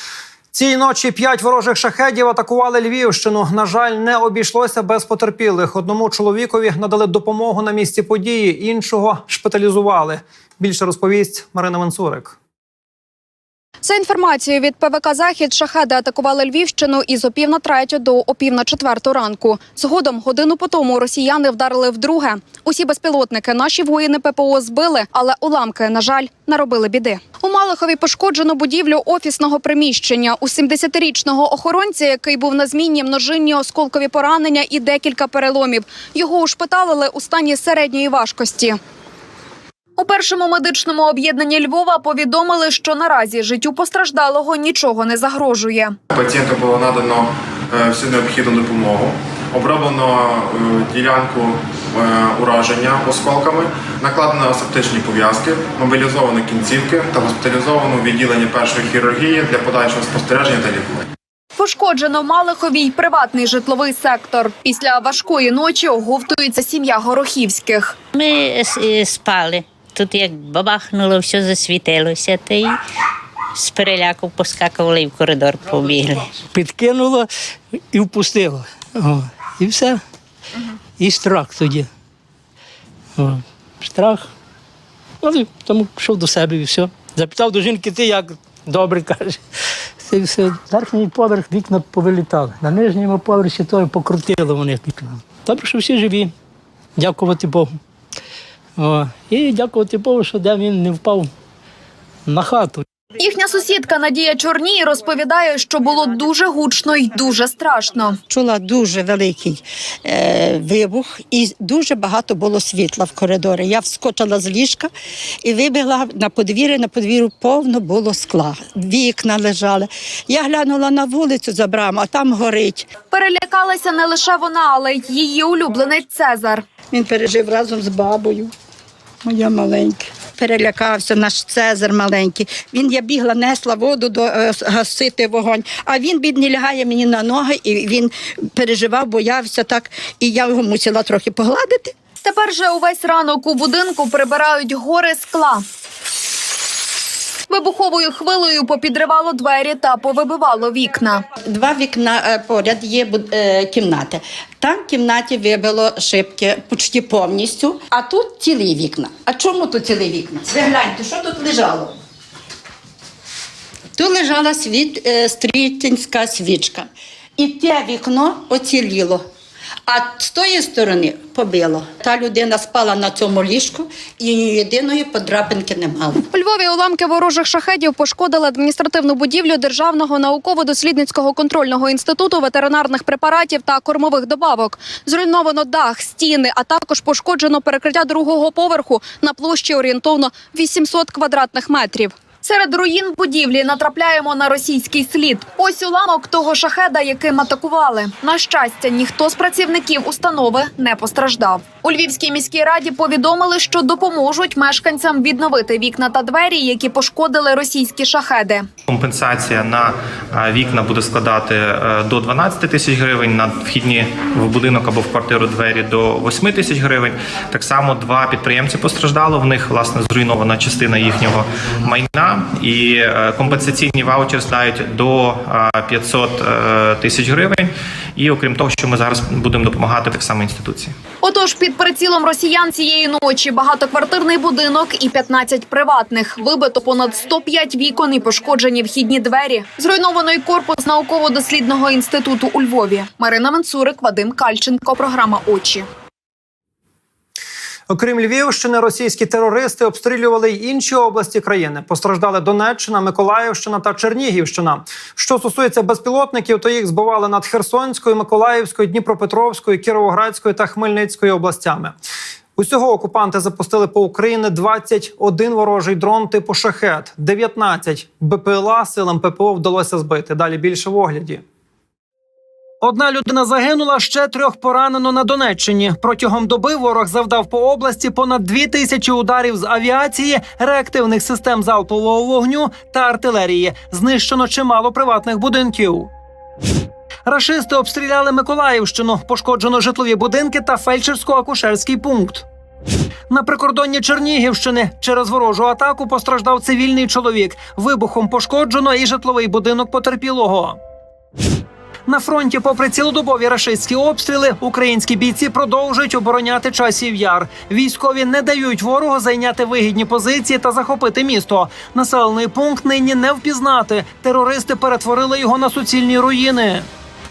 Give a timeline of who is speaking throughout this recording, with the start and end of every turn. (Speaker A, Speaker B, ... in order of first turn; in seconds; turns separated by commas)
Speaker A: 0.5-12.4, Speaker B: 13.8-38.8, Speaker B: 40.0-46.0, Speaker C: 46.1-61.0, Speaker B: 61.6-68.0, Speaker D: 68.2-72.8, Speaker D: 73.6-76.4, Speaker E: 76.5-77.3, Speaker E: 77.9-80.0, Speaker E: 81.0-81.9, Speaker E: 83.2-84.3, Speaker E: 85.2-89.4, Speaker E: 90.0-96.3, Speaker E: 97.0-97.8, Speaker E: 98.8-101.3, Speaker E: 102.3-102.8, Speaker B: 103.2-108.2, Speaker F: 108.3-114.9, Speaker F: 115.4-122.9, Speaker B: 123.1-126.6, Speaker F: 126.9-128.5, Speaker F: 129.2-141.9, Speaker B: 142.2-145.6, Speaker B: 147.5-151.2, Speaker F: 151.5-161.9, Speaker F: 164.0-169.2, Speaker F: 169.9-176.2, Speaker B: 176.3-208.7, Speaker G: 208.9-230.9, Speaker B: 231.2-245.9, Speaker A: 247.9-261.9, Speaker A: 262.6-271.4, Speaker A: 272.8-286.1, Speaker A: 287.3-292.4, Speaker A: 293.3-300.8, Speaker A: 302.1-316.9